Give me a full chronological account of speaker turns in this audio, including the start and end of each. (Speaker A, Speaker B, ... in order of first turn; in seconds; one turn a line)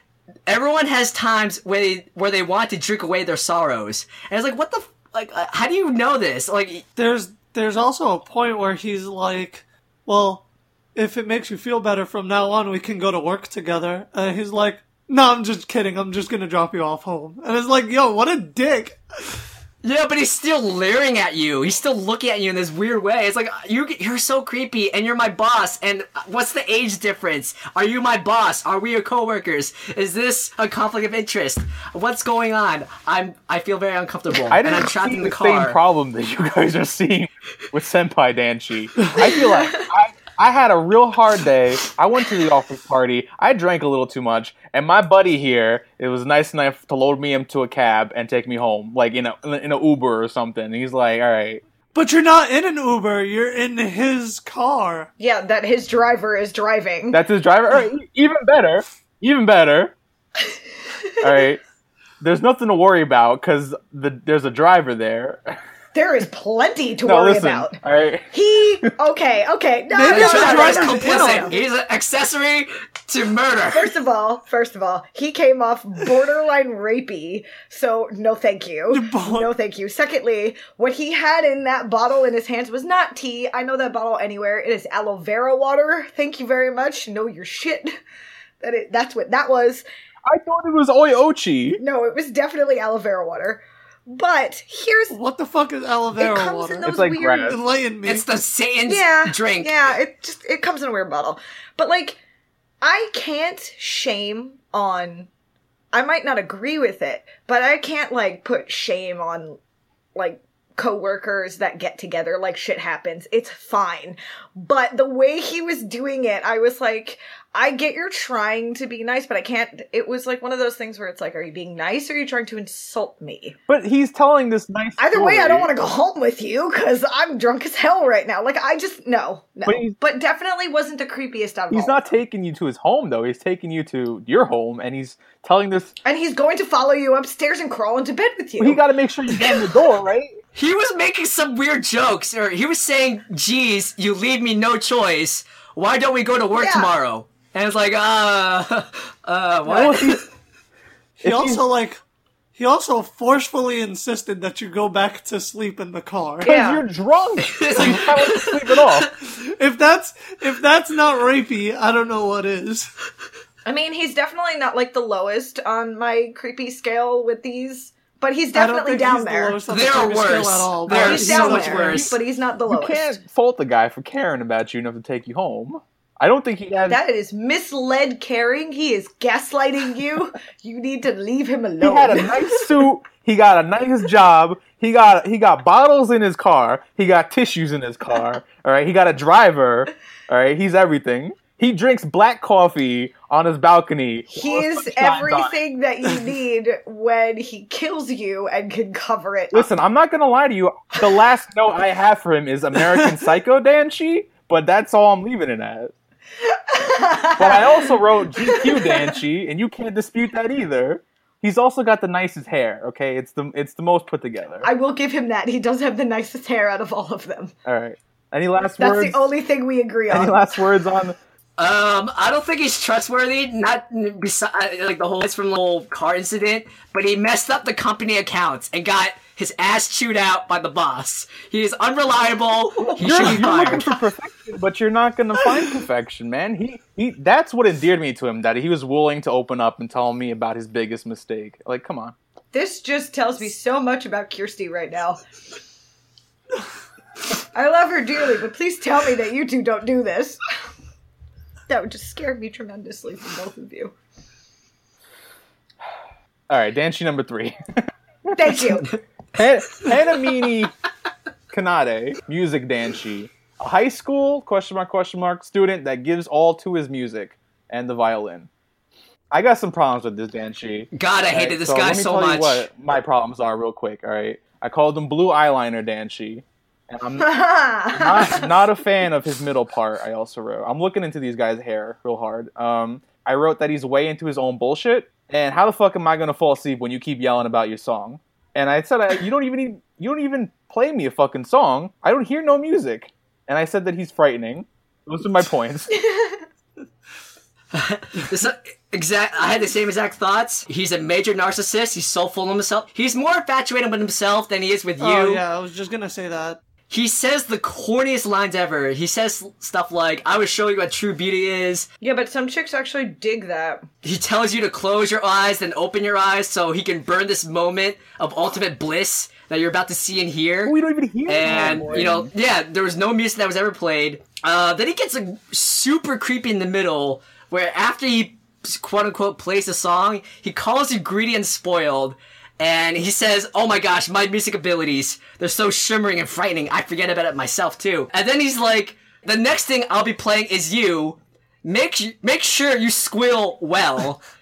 Speaker A: 0.5-6.8
Speaker B: 7.0-10.4
Speaker B: 10.9-19.4
Speaker A: 19.8-35.8
Speaker C: 34.5-51.6
Speaker D: 39.2-39.9
Speaker B: 51.9-55.1
Speaker D: 55.2-57.2
Speaker C: 57.1-59.9
Speaker C: 61.2-61.6
Speaker C: 62.2-65.6
Speaker D: 65.9-67.8
Speaker C: 67.0-68.3
Speaker D: 68.3-71.5
Speaker B: 69.9-71.6
Speaker A: 70.1-73.9
Speaker D: 73.7-88.0
Speaker B: 78.9-79.5
Speaker D: 88.6-89.8
Speaker C: 90.2-91.8
Speaker D: 91.8-95.1
Speaker B: 95.1-98.2
Speaker D: 96.2-97.5
Speaker C: 96.8-97.6
Speaker A: 98.0-99.7
Speaker D: 98.9-102.2
Speaker D: 102.8-105.3
Speaker D: 105.9-109.6
Speaker D: 110.1-123.5
Speaker C: 123.7-125.7
Speaker D: 125.0-132.1
Speaker C: 129.7-130.0
Speaker C: 131.7-135.9
Speaker D: 136.0-138.8
Speaker C: 138.6-140.4
Speaker A: 140.5-150.2
Speaker D: 146.6-146.9
Speaker C: 149.7-150.2
Speaker B: 151.2-152.0
Speaker C: 151.2-151.6
Speaker B: 152.6-156.5
Speaker C: 156.4-159.1
Speaker D: 156.5-156.8
Speaker A: 157.4-158.6
Speaker B: 159.2-162.9
Speaker D: 163.6-169.6
Speaker B: 168.5-172.1
Speaker A: 169.7-172.2
Speaker D: 170.9-173.2
Speaker C: 172.7-177.0
Speaker D: 176.9-182.7
Speaker C: 181.8-195.5
Speaker D: 194.3-199.7
Speaker C: 199.5-205.9
Speaker D: 206.4-209.2
Speaker C: 207.4-214.7
Speaker D: 214.6-217.5
Speaker C: 217.7-219.2
Speaker D: 218.8-220.5
Speaker C: 220.1-221.2
Speaker A: 221.6-233.8
Speaker C: 233.0-242.1
Speaker D: 233.1-233.9
Speaker D: 242.5-245.2
Speaker D: 247.5-250.4
Speaker D: 251.7-253.9
Speaker C: 256.5-257.6
Speaker D: 258.3-258.9
Speaker C: 259.3-260.7
Speaker C: 261.5-268.5
Speaker C: 269.3-277.3
Speaker A: 270.9-272.7
Speaker D: 277.2-278.5
Speaker C: 277.9-295.9
Speaker D: 295.9-296.4
Speaker A: 297.7-305.4
Speaker B: 305.0-306.6
Speaker A: 306.9-311.9
Speaker D: 312.0-313.9
Speaker A: 314.0-320.8
Speaker C: 320.6-322.3
Speaker A: 321.3-344.2